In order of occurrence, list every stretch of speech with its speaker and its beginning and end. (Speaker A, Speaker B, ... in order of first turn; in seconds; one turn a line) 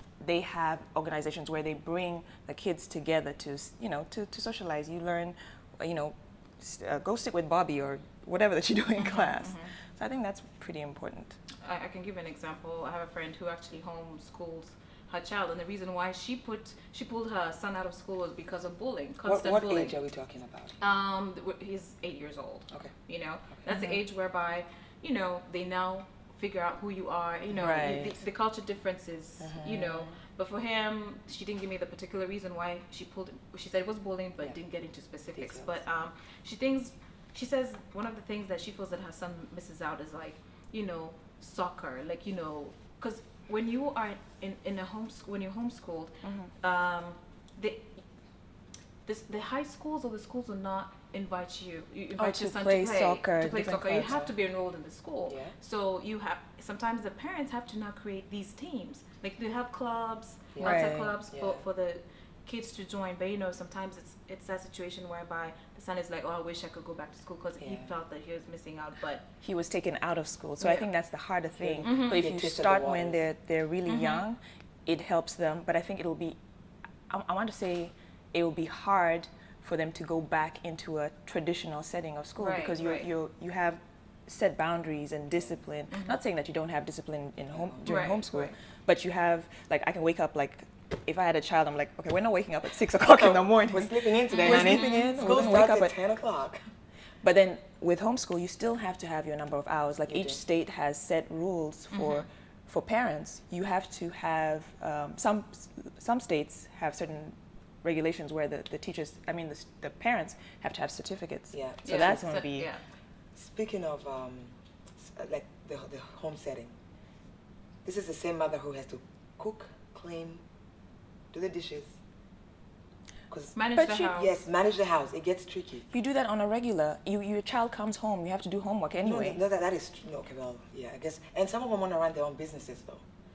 Speaker A: 0.2-11.4
Speaker B: 9.0-9.7
Speaker B: 11.6-19.9
Speaker C: 19.2-20.7
Speaker B: 20.8-48.0
Speaker A: 23.7-24.0
Speaker A: 27.5-28.1
Speaker C: 29.4-30.1
Speaker C: 35.4-35.8
Speaker A: 46.2-46.5
Speaker B: 49.0-69.2
Speaker A: 52.2-54.2
Speaker C: 54.0-54.3
Speaker C: 55.3-55.5
Speaker C: 60.5-61.6
Speaker A: 60.6-61.2
Speaker C: 67.6-67.9
Speaker A: 69.4-76.4
Speaker B: 70.6-70.9
Speaker C: 71.6-73.2
Speaker B: 71.8-72.2
Speaker B: 73.9-74.2
Speaker A: 77.1-95.9
Speaker B: 82.4-83.0
Speaker B: 85.9-86.2
Speaker C: 87.5-87.8
Speaker B: 87.8-88.5
Speaker C: 93.0-96.6
Speaker B: 94.3-95.1
Speaker A: 97.2-112.7
Speaker C: 100.1-100.4
Speaker B: 101.9-102.2
Speaker C: 111.5-112.2
Speaker B: 111.8-112.8
Speaker C: 113.3-116.8
Speaker C: 117.8-120.4
Speaker C: 121.3-122.0
Speaker C: 123.3-125.9
Speaker B: 123.5-124.3
Speaker A: 123.8-124.1
Speaker A: 125.9-129.4
Speaker C: 129.0-133.0